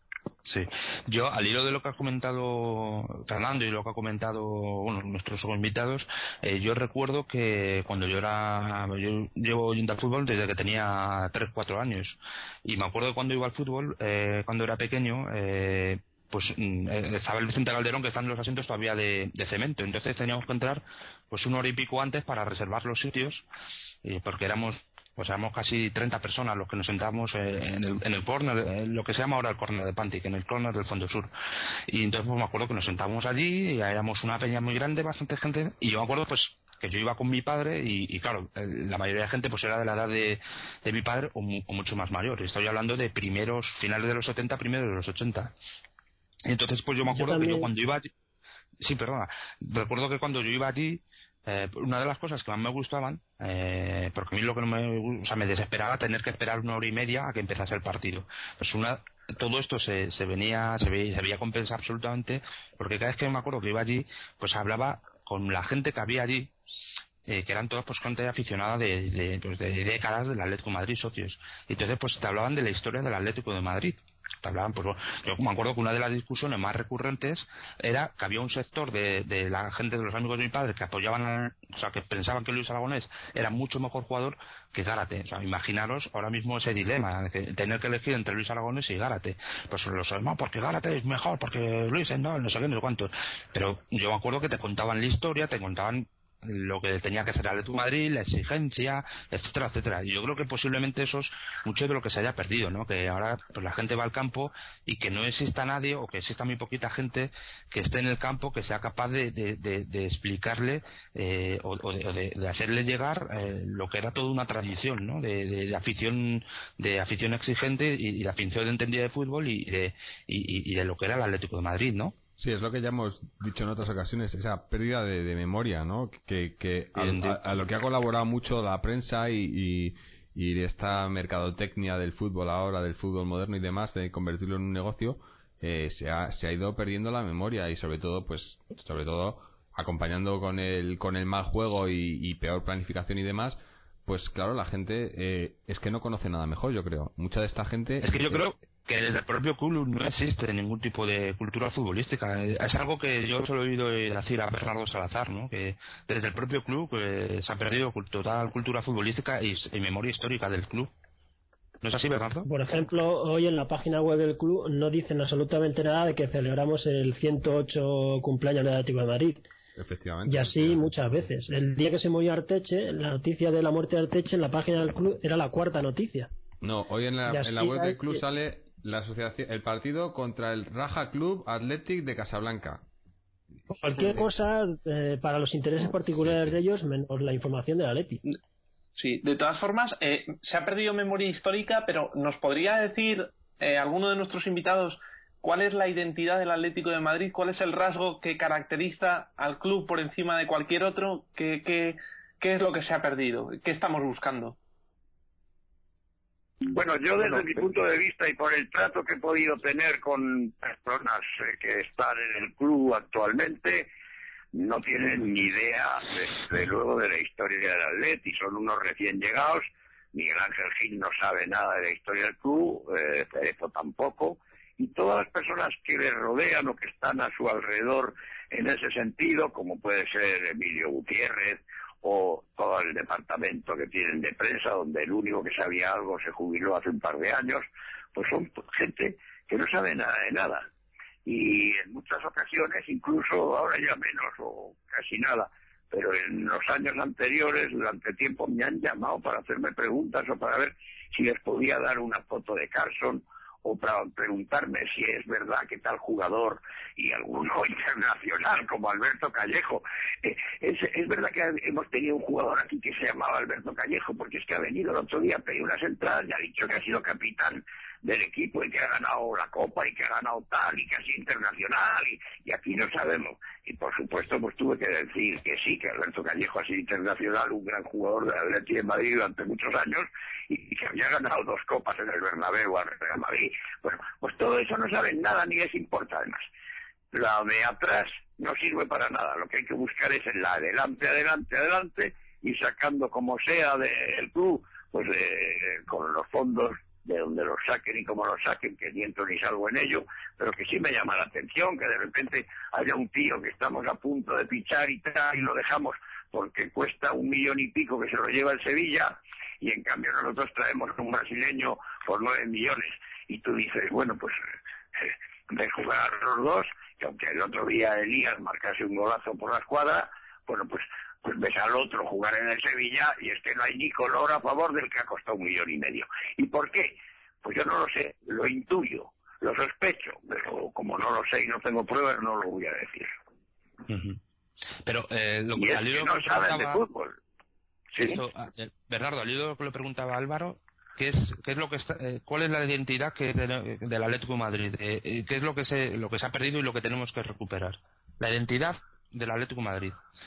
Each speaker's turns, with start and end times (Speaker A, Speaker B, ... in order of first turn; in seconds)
Speaker A: 0.4-23.4, 24.0-31.3, 31.9-45.5, 46.5-48.1, 48.8-66.5, 67.3-122.2, 127.0-127.4, 148.0-160.9, 161.8-162.5, 333.9-334.2, 334.9-336.9, 338.0-350.0
Speaker B: 47.1-47.7, 162.5-169.5, 170.3-176.3, 177.3-178.2, 183.7-188.2
Speaker C: 122.4-148.5, 169.8-170.9, 176.6-182.8, 186.3-186.5
Speaker D: 189.0-204.6
Speaker E: 206.7-213.9, 214.5-240.7, 241.3-286.4, 287.1-314.4, 315.0-333.1, 335.6-337.2, 337.9-338.2